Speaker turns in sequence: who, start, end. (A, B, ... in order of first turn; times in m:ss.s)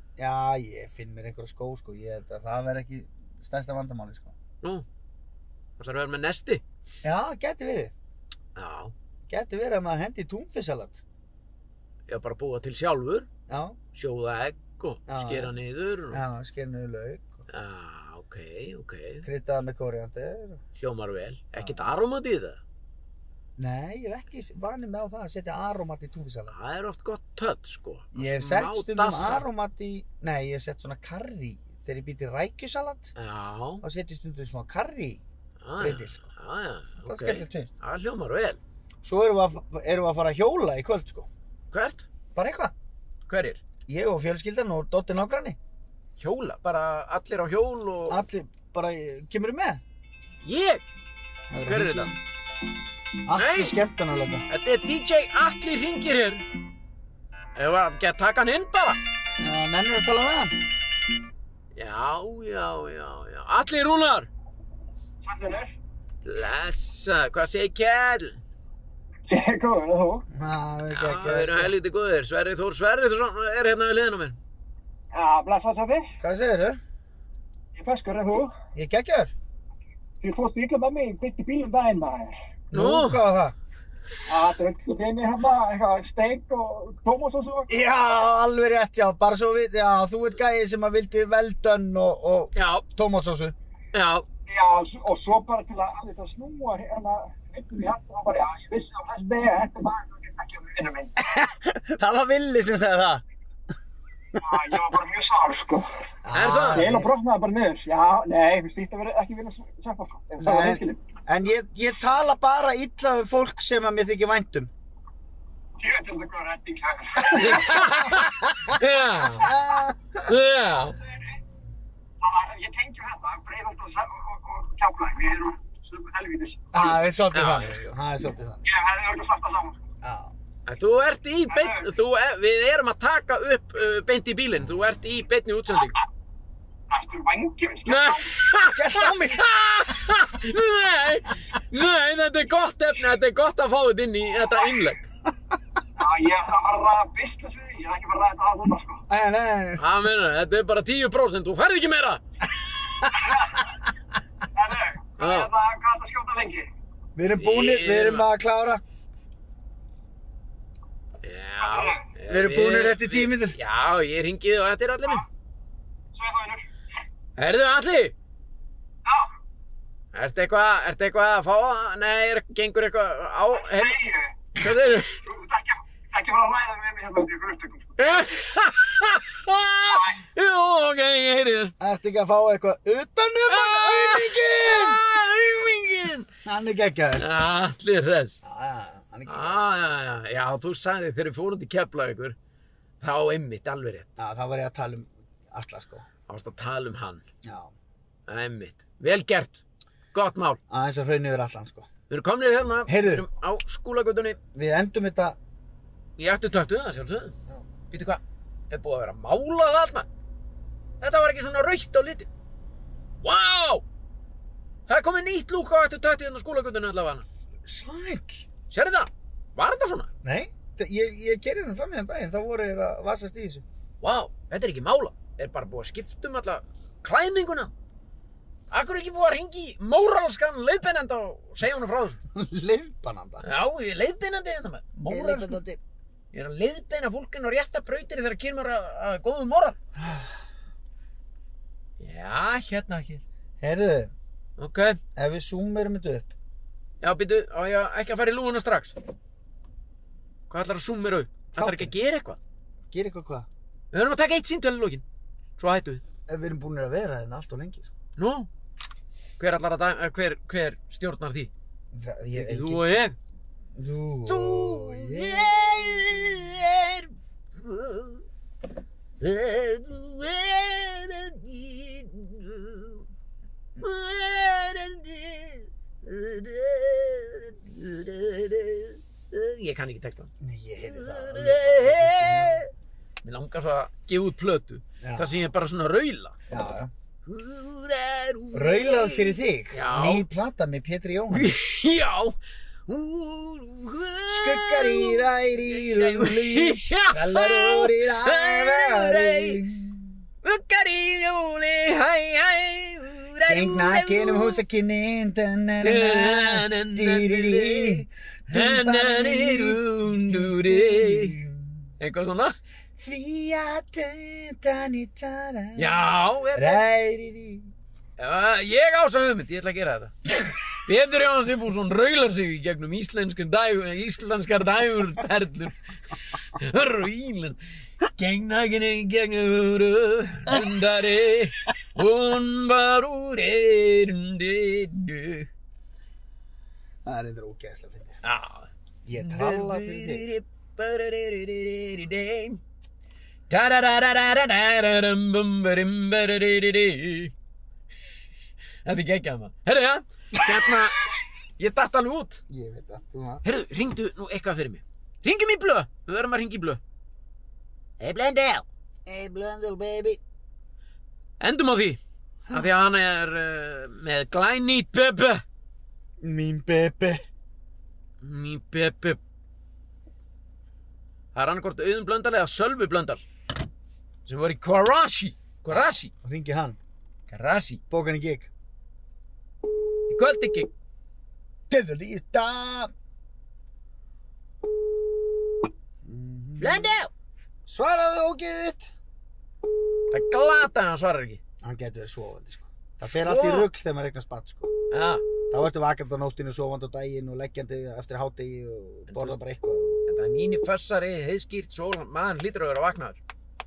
0:00.2-0:04.4 A
0:05.8-0:06.6 B
0:07.0-0:07.9 A
0:08.5-0:08.9 B
0:09.3-0:11.0 A
0:12.1-0:13.3 B
0:13.5-0:13.8 A
0:13.9-0:16.2 B
0:15.1-0:15.5 A
0:16.1-0:17.4 A
0:17.5-0:19.2 B
0:19.2-0:20.6 A
0:20.8-0:22.6 B
0:21.6-0:21.9 A
0:23.6-0:26.6 A
0:26.5-0:29.5 B
0:28.1-0:33.1 A
0:33.2-0:33.8 B
0:33.8-0:35.2 A
0:35.6-0:38.6 B
0:35.8-0:36.2 A
0:37.0-0:37.7 A
0:39.0-0:41.3 A
0:41.7-0:42.0 B
0:42.3-0:42.7 A
0:43.3-0:43.6 B
0:43.9-0:45.6 A
0:46.2-0:48.2 B
0:48.1-0:49.8 A
0:50.4-0:50.8 B
0:51.5-0:52.2 A
0:51.6-0:52.1 B
0:53.2-0:54.4 A
0:53.3-0:53.8 B
0:54.5-0:56.4 B
0:57.6-0:59.0 B
0:59.4-1:00.5 A
1:01.8-1:04.3 B
1:05.2-1:05.7 C
1:06.2-1:08.4 B
1:09.3-1:10.3 C
1:10.3-1:11.7 A
1:10.9-1:14.4 B
1:15.1-1:16.1 C
1:16.2-1:16.8 A
1:17.8-1:18.5 C
1:18.7-1:19.3 A
1:20.2-1:22.3 C
1:22.7-1:23.5 A
1:22.7-1:23.2 B
1:24.3-1:27.8 C
1:27.7-1:33.5 A
1:32.5-1:32.8 B
1:33.9-1:34.2 B
1:34.5-1:41.3 C
1:41.2-1:43.2 A
1:44.3-1:44.7 A
1:44.4-1:45.9 C
1:46.2-1:47.1 A
1:46.3-1:46.8 B
1:46.7-1:51.0 C
1:50.4-1:54.7 A
1:55.8-1:57.8 C
1:57.3-1:58.7 A
1:57.3-1:59.5 B
1:59.2-2:00.3 A
2:00.2-2:01.0 B
2:02.2-2:07.0 C
2:06.7-2:08.6 A
2:07.3-2:07.9 B
2:08.6-2:09.8 C
2:10.0-2:10.3 A
2:10.6-2:16.0 B
2:11.5-2:11.9 C
2:16.9-2:18.3 C
2:17.8-2:25.0 B
2:18.6-2:19.5 A
2:26.0-2:29.0 C
2:29.1-2:29.8 A
2:29.8-2:32.2 B
2:33.2-2:33.6 C
2:34.5-2:36.7 C
2:35.2-2:35.5 B
2:37.2-2:38.8 A
2:37.4-2:38.3 B
2:41.2-2:45.2 B
2:41.6-2:42.0 C
2:42.3-2:43.6 A
2:46.1-2:46.7 C
2:47.4-2:48.1 B
2:50.1-2:54.0 B
2:53.6-2:54.3 C
2:54.5-2:55.2 B
2:55.2-2:58.5 C
2:58.0-3:01.7 B
2:59.9-3:00.2 C
3:01.8-3:05.0 A
3:03.5-3:06.3 B
3:06.4-3:07.2 A
3:07.2-3:08.4 B
3:08.4-3:09.6 A
3:09.3-3:12.4 B
3:13.0-3:14.1 B
3:14.2-3:16.0 A
3:16.3-3:17.2 B
3:17.4-3:17.7 A
3:18.3-3:20.6 B
3:20.7-3:21.9 A
3:22.1-3:24.4 B
3:22.9-3:23.2 A
3:24.5-3:25.4 A
3:26.2-3:27.3 B
3:27.9-3:30.1 B
3:31.0-3:32.3 B
3:33.2-3:33.8 B
3:34.9-3:37.2 B
3:37.6-3:38.5 A
3:38.7-3:40.1 B
3:40.2-3:43.6 A
3:44.0-3:47.7 B
3:48.7-3:52.2 B
3:52.3-3:53.4 A
3:53.4-3:55.6 B
3:55.1-3:55.8 A
3:56.3-3:59.8 B
4:00.0-4:00.3 A
4:02.0-4:03.2 B
4:03.6-4:04.1 A
4:04.6-4:05.0 B
4:05.2-4:06.3 A
4:07.0-4:09.0 B
4:10.5-4:12.4 B
4:11.5-4:11.9 A
4:12.9-4:13.5 A
4:13.9-4:15.0 B
4:15.6-4:16.0 B
4:16.3-4:17.9 A
4:18.2-4:18.5 B
4:19.4-4:21.5 B
4:21.9-4:22.9 A
4:22.3-4:23.2 B
4:23.7-4:26.3 A
4:24.3-4:28.2 B
4:29.2-4:33.0 B
4:33.8-4:42.7 B
4:40.4-4:42.6 A
4:43.2-4:46.4 B
4:45.0-4:45.4 A
4:46.5-4:46.9 A
4:47.2-4:50.2 B
4:48.5-4:51.5 A
4:51.3-4:52.4 B
4:52.9-4:59.6 B
4:54.3-5:00.2 A
5:00.4-5:04.6 B
5:03.5-5:11.9 A
5:05.8-5:11.4 B
5:12.0-5:12.6 B
5:13.0-5:16.0 A
5:15.8-5:16.8 B
5:16.5-5:17.7 A
5:18.2-5:27.6 B
5:28.2-5:35.5 B
5:37.0-5:38.2 A
5:38.2-5:42.6 B
5:39.0-5:40.2 A
5:43.5-5:47.3 B
5:48.8-5:51.0 B
5:51.6-5:52.4 B
5:52.5-5:53.4 A
5:53.4-5:56.8 B
5:58.0-5:58.6 B
5:59.0-6:00.2 A
6:01.4-6:05.4 B
6:06.2-6:07.2 A
6:08.2-6:09.2 B
6:11.3-6:13.2 B
6:14.2-6:16.1 B
6:15.7-6:16.8 A
6:17.3-6:17.8 B
6:17.9-6:18.5 A
6:20.1-6:20.7 B
6:21.7-6:22.9 A
6:26.0-6:27.0 A
6:26.6-6:27.1 B
6:27.6-6:28.9 A
6:30.1-6:31.4 B
6:31.6-6:34.7 A
6:33.0-6:33.7 B
6:34.9-6:35.2 B
6:35.5-6:40.0 A
6:39.1-6:39.4 B
6:40.1-6:43.2 B